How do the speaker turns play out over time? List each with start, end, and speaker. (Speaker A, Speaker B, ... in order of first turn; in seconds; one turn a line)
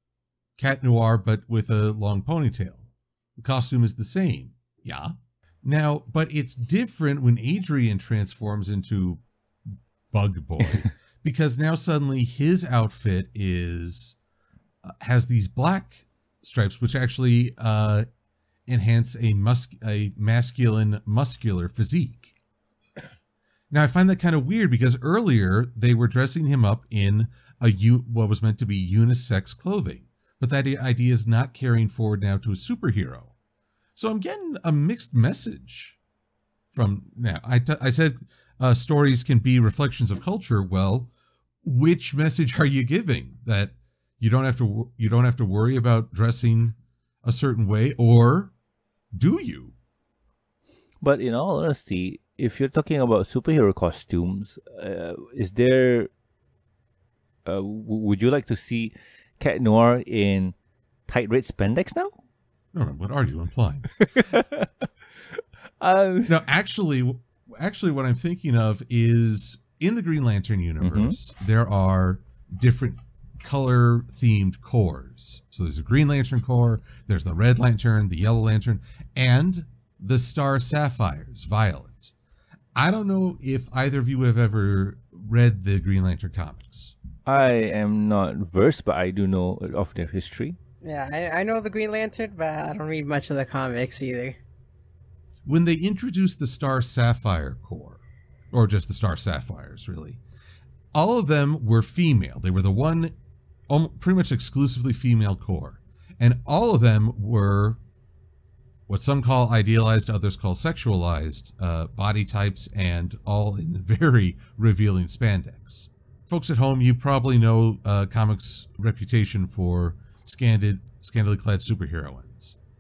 Speaker A: 0.6-9.2
Speaker A: 10.1-14.2
Speaker B: 10.7-10.9
Speaker A: 14.8-18.1
Speaker A: 18.7-22.3
Speaker A: 23.7-33.3
Speaker A: 34.0-36.0
Speaker A: 36.7-41.1
Speaker A: 41.6-48.5
Speaker A: 49.1-49.8
Speaker B: 51.0-56.1
Speaker B: 57.5-60.5
Speaker B: 61.1-62.1
Speaker A: 62.7-63.9
Speaker B: 64.0-66.4
Speaker A: 66.3-82.1
Speaker B: 70.8-71.2
Speaker A: 82.8-86.9
Speaker B: 87.3-90.6
Speaker C: 90.8-94.4
Speaker A: 95.5-98.0
Speaker A: 98.5-100.2
Speaker A: 100.9-103.1
Speaker A: 103.7-107.8
Speaker A: 108.9-122.6